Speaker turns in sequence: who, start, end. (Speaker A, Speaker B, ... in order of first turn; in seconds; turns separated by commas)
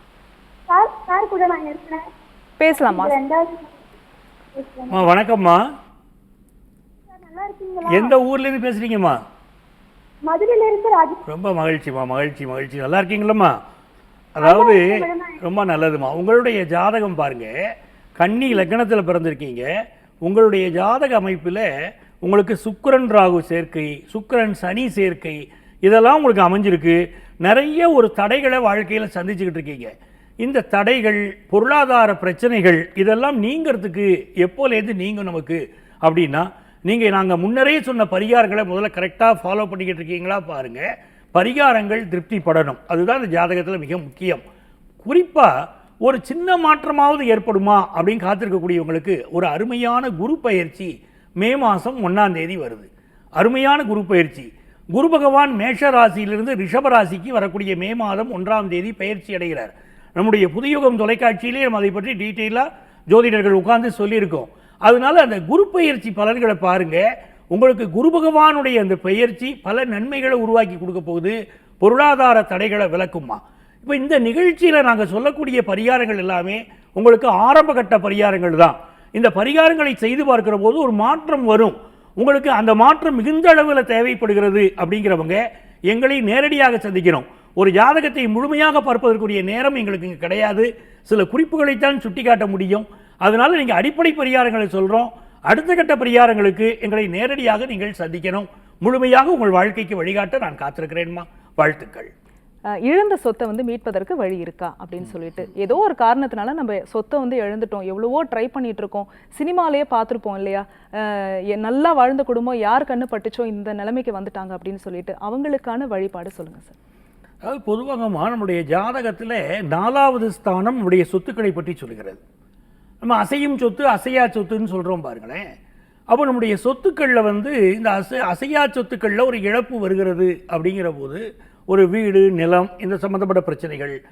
Speaker A: 0.7-2.1, Speaker B: 2.6-3.1, Speaker A: 2.7-3.9, Speaker A: 4.5-5.0, Speaker C: 4.9-5.6, Speaker A: 7.1-8.2, Speaker C: 7.9-9.2, Speaker A: 10.2-11.2, Speaker C: 11.3-13.6, Speaker C: 14.3-17.5, Speaker A: 14.4-15.4, Speaker C: 18.2-19.7, Speaker C: 20.2-21.7, Speaker C: 22.2-44.5, Speaker C: 45.0-45.5, Speaker C: 46.0-102.1, Speaker B: 102.8-116.8, Speaker C: 117.4-122.2, Speaker C: 123.0-125.4, Speaker C: 126.1-134.0